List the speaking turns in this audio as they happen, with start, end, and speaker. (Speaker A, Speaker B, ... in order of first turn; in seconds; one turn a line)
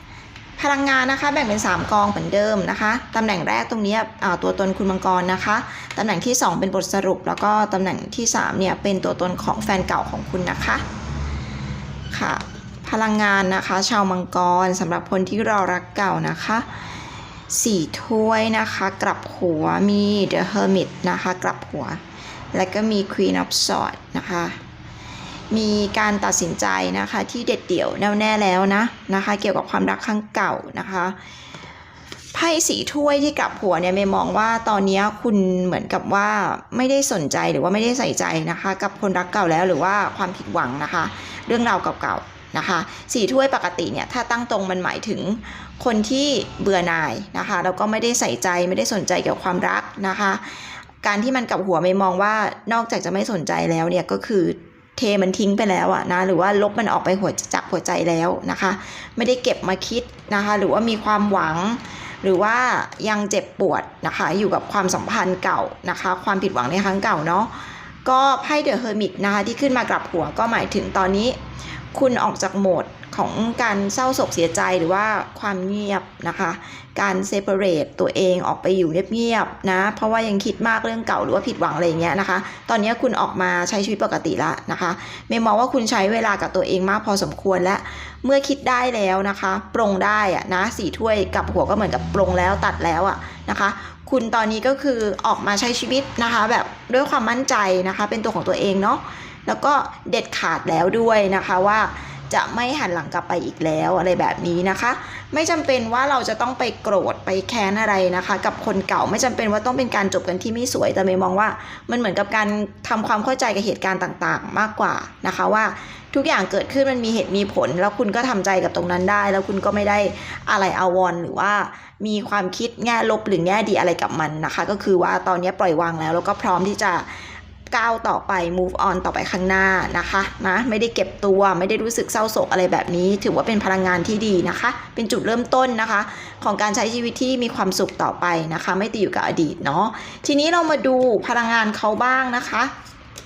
Speaker A: 0.6-10.8
Speaker A: 12.1-16.7
Speaker A: 17.5-22.0
Speaker A: 22.5-24.6
Speaker A: 25.5-31.1
Speaker A: 32.3-67.5
Speaker A: 68.0-71.4
Speaker A: 71.9-127.1
Speaker A: 127.7-142.7